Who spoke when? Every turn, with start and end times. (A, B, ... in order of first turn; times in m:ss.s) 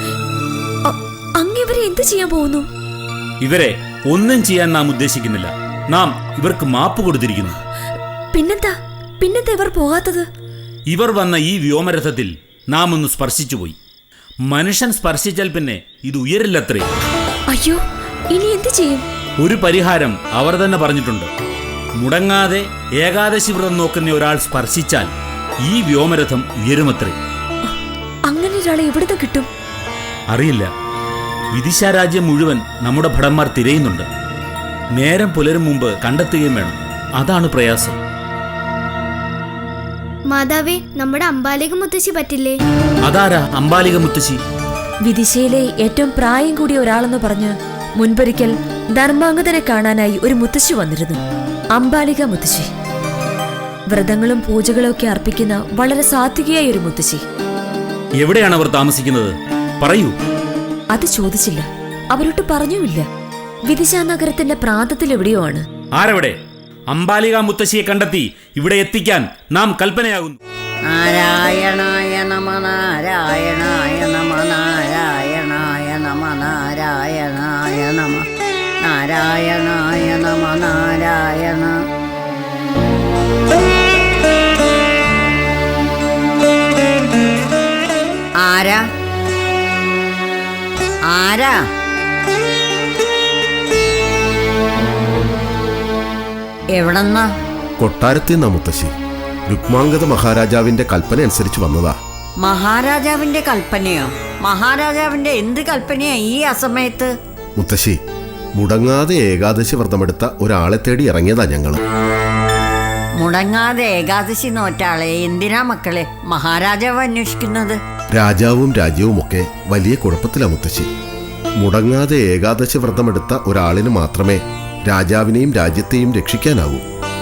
0:00.9-0:02.6 A
0:03.4-0:07.6 B
0:08.3-0:10.2 A
0:10.9-0:13.8 B
0:14.5-0:16.9 B
0:17.5-0:17.8 A
0:18.3-0:19.0 A
0:19.4-0:21.3 B
0:22.0-0:25.1 B
0:25.6-0:27.2 B
0:28.3-0:29.5 A
0:30.3-0:30.7 B
0:31.5-0:34.1 B
0:34.9-0:38.0 B
0:40.3-0:42.6 C
0:43.0-0:44.4 B
0:45.1-0:51.2 A
0:51.8-0:52.7 A
0:53.9-0:57.2 A
0:58.2-1:00.1 B
1:00.9-1:03.0 A
1:03.7-1:05.6 A
1:06.0-1:06.4 B
1:06.9-1:10.4 B
1:10.8-1:18.3 D
1:18.8-1:21.8 D
1:28.4-1:28.8 D
1:31.1-1:31.6 D
1:36.7-1:37.3 D
1:37.8-1:38.9 E
1:39.5-1:42.0 E
1:42.4-1:47.1 D
1:47.6-1:48.0 E
1:48.6-1:51.8 E
1:53.2-1:57.8 D
1:58.1-2:00.9 E
2:01.6-2:06.8 E